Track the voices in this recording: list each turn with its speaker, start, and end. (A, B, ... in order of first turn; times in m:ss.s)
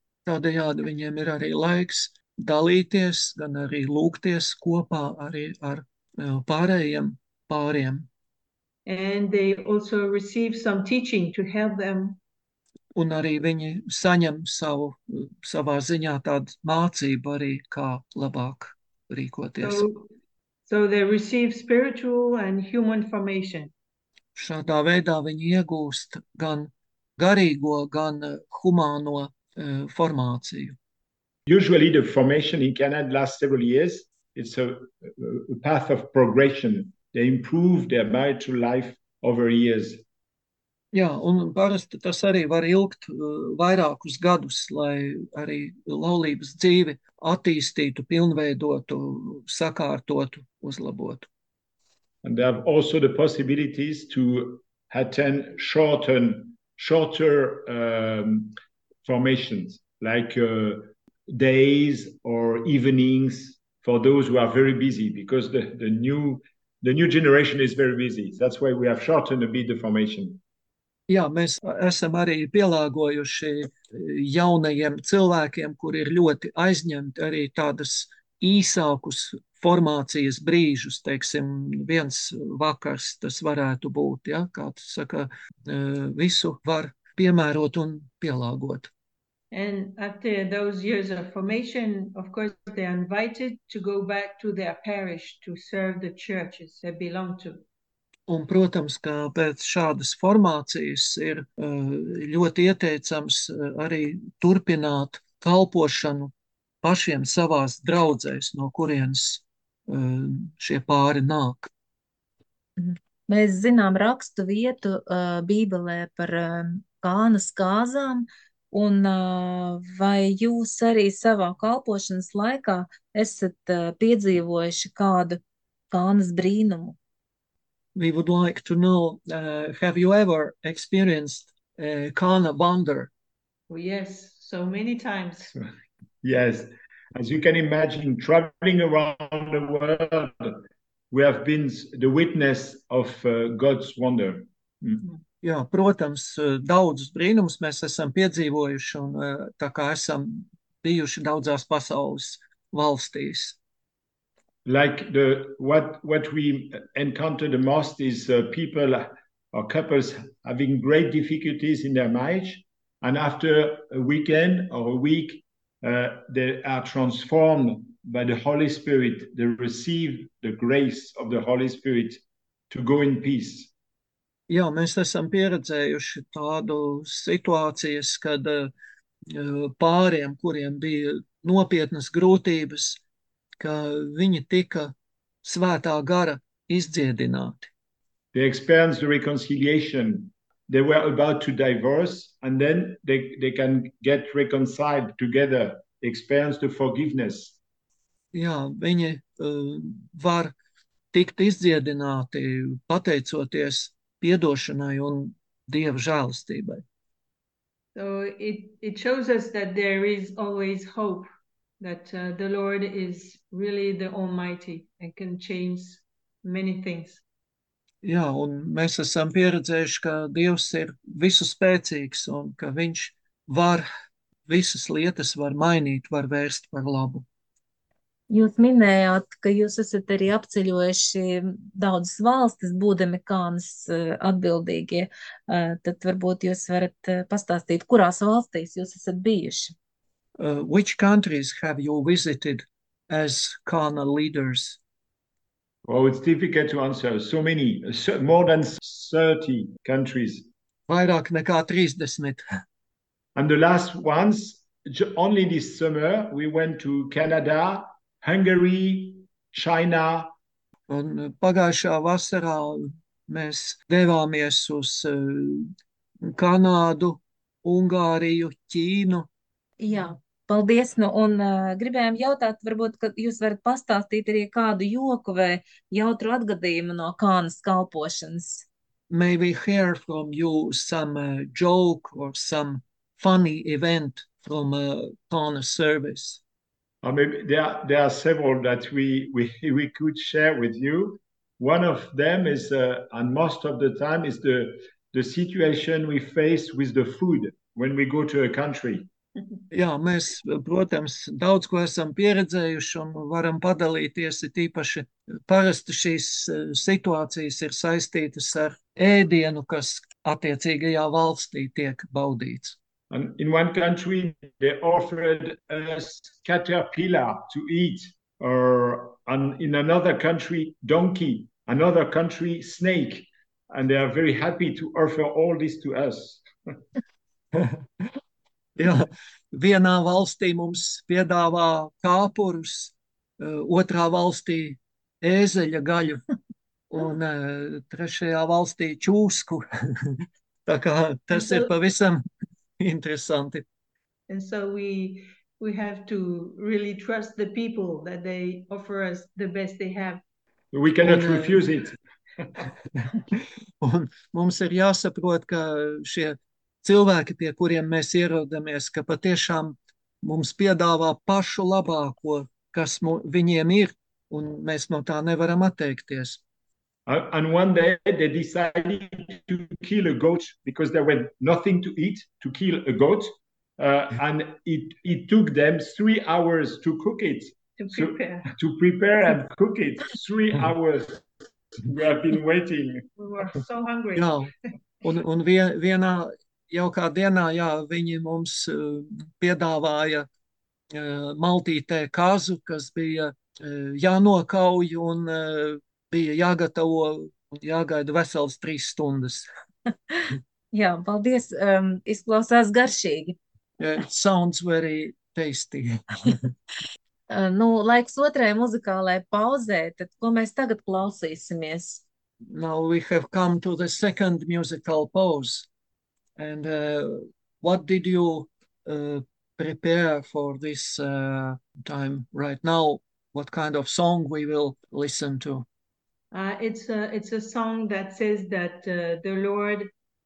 0:00.3-0:08.1 A
0:08.9-0:12.2 B
0:13.0-0:19.8 A
0:19.6-0:20.1 B
0:20.7-0:23.7 B
0:24.4-0:30.8 A
0:31.5-0:40.0 C
0:40.9-0:51.3 A
0:52.2-1:10.4 C
1:11.1-1:28.9 A
1:29.5-1:37.6 B
1:38.3-1:51.7 A
1:52.8-2:05.4 D
2:05.9-2:07.0 D
2:08.0-2:13.1 A
2:13.7-2:15.5 B
2:16.2-2:25.1 C
2:25.4-2:33.6 A
2:34.7-2:53.7 C
2:54.5-2:58.7 A
2:59.3-3:03.0 A
3:03.6-3:07.7 A
3:08.3-3:17.6 C
3:18.3-3:20.5 A
3:21.1-3:26.8 A
3:28.0-3:31.3 B
3:31.8-3:37.2 B
3:38.0-3:43.9 A
3:44.5-3:47.2 A
3:48.3-3:59.7 D
4:00.4-4:04.8 A
4:05.8-4:10.5 C
4:10.9-4:12.5 A
4:13.4-4:20.3 C
4:20.9-4:29.3 A
4:29.8-4:38.6 D
4:39.1-4:46.4 A
4:47.0-4:59.1 C
4:59.7-5:12.8 A
5:13.1-5:26.5 C
5:27.6-5:28.0 A
5:28.8-5:36.2 A
5:36.9-5:42.2 A
5:41.3-5:41.7 B
5:42.8-5:43.6 A
5:44.3-5:50.2 B
5:50.7-5:52.0 C
5:51.0-5:51.6 A
5:53.8-6:06.4 A
6:07.1-6:21.2 C
6:17.8-6:18.5 B
6:21.8-6:23.0 C
6:23.2-6:24.4 B
6:24.2-6:24.5 A
6:25.0-6:30.3 A
6:30.9-6:39.5 A
6:40.7-6:43.4 D
6:43.8-6:46.5 A
6:47.3-6:52.0 D
6:52.5-6:55.7 A
6:56.4-7:05.7 A
7:06.3-7:09.9 B